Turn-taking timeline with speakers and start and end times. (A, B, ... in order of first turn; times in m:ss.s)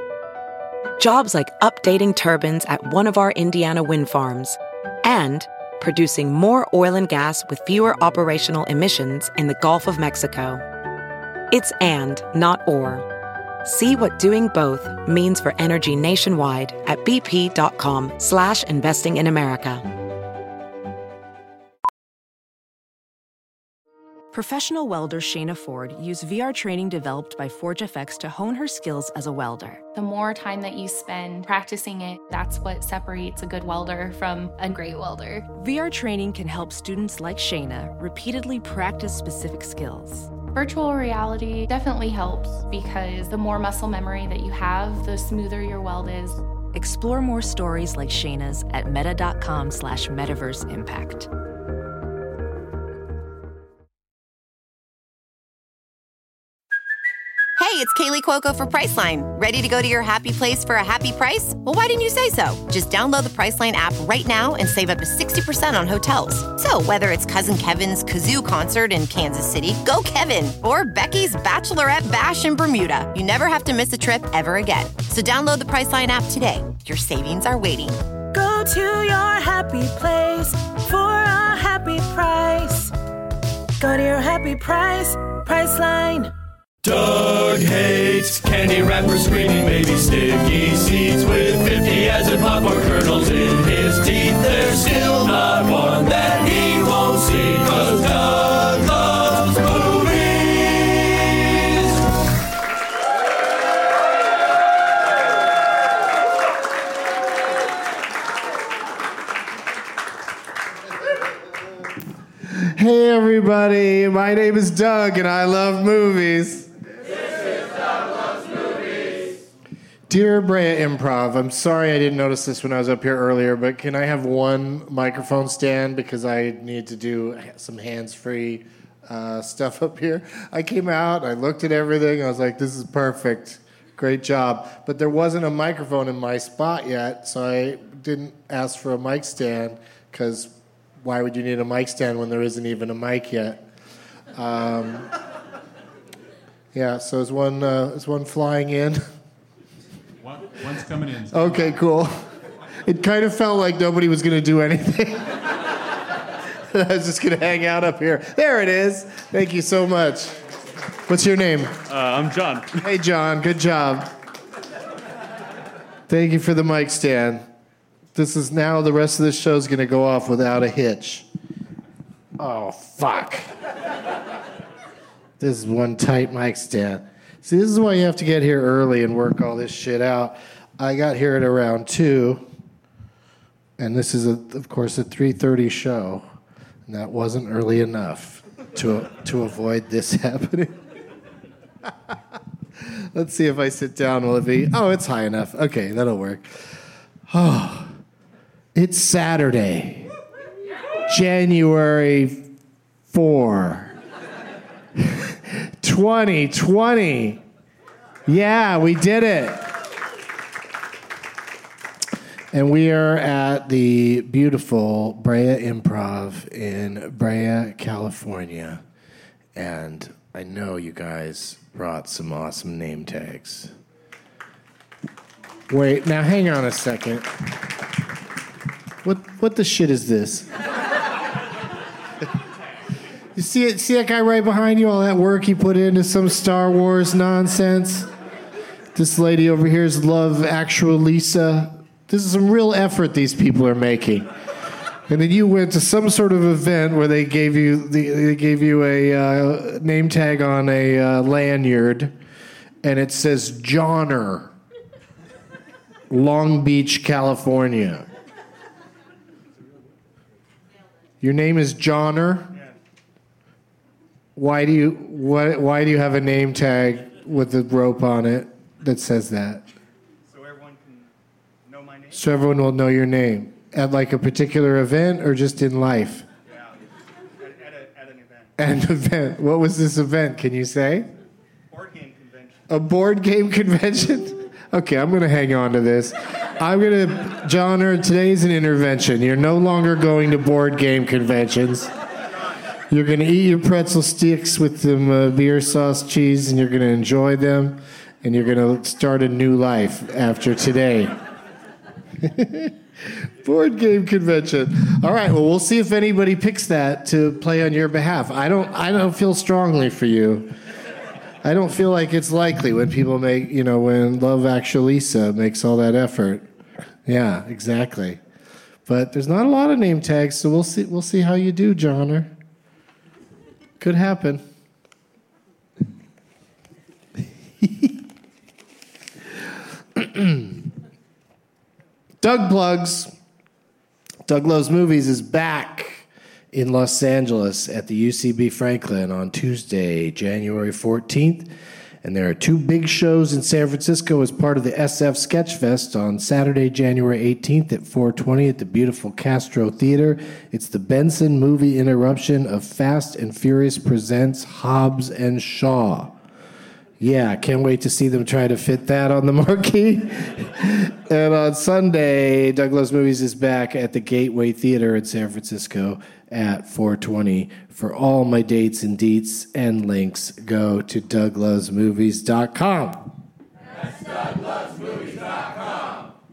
0:01.0-0:10.6 A
0:11.5-0:13.0 A
0:13.6-0:19.8 A
0:24.3-0:29.8 B
0:29.9-0:35.5 C
0:35.5-0:40.3 B
0:40.5-0:46.4 C
0:46.7-0:51.3 B
0:57.6-1:18.0 D
1:18.3-1:22.9 E
1:23.8-1:26.3 E
1:26.8-1:42.0 F
1:52.4-1:56.7 G
2:00.1-2:23.6 G
2:24.3-2:25.1 G
2:26.7-2:29.0 G
2:30.2-2:31.7 H
2:31.3-2:32.1 G
2:32.8-2:35.8 G
2:36.7-2:40.3 G
2:41.1-2:41.9 G
2:41.9-2:42.8 H
2:42.0-2:42.7 F
2:42.8-2:44.1 G
2:46.1-2:47.4 G
2:48.1-2:51.2 G
2:52.4-2:53.5 G
2:55.4-3:02.4 G
3:03.8-3:06.2 G
3:06.9-3:10.8 G
3:12.8-3:16.6 G
3:17.3-3:17.9 G
3:18.7-3:20.1 G
3:21.1-3:22.4 G
3:23.1-3:23.9 G
3:25.0-3:27.4 G
3:28.2-3:29.7 G
3:32.5-3:38.8 G
3:39.5-3:43.7 G
3:45.7-3:47.3 G
3:49.0-3:50.5 G
3:53.3-3:58.1 G
3:58.9-4:04.3 G
4:05.1-4:12.1 G
4:12.8-4:14.5 G
4:16.1-4:18.1 G
4:21.2-4:22.5 G
4:24.4-4:29.6 G
4:30.2-4:31.1 I
4:31.6-4:32.3 I
4:32.1-4:36.2 G
4:36.5-4:36.9 I
4:37.4-4:38.5 I
4:38.6-4:41.1 G
4:41.7-4:42.7 I
4:42.7-4:51.9 G
4:52.9-5:01.1 G
5:02.2-5:10.5 G
5:11.4-5:16.4 G
5:17.0-5:18.2 G
5:18.8-5:22.3 G
5:23.8-5:24.4 G
5:27.6-5:28.0 G
5:29.9-5:30.7 G
5:32.2-5:33.1 G
5:34.3-5:41.5 G
5:42.0-5:56.2 G
5:57.0-6:13.1 G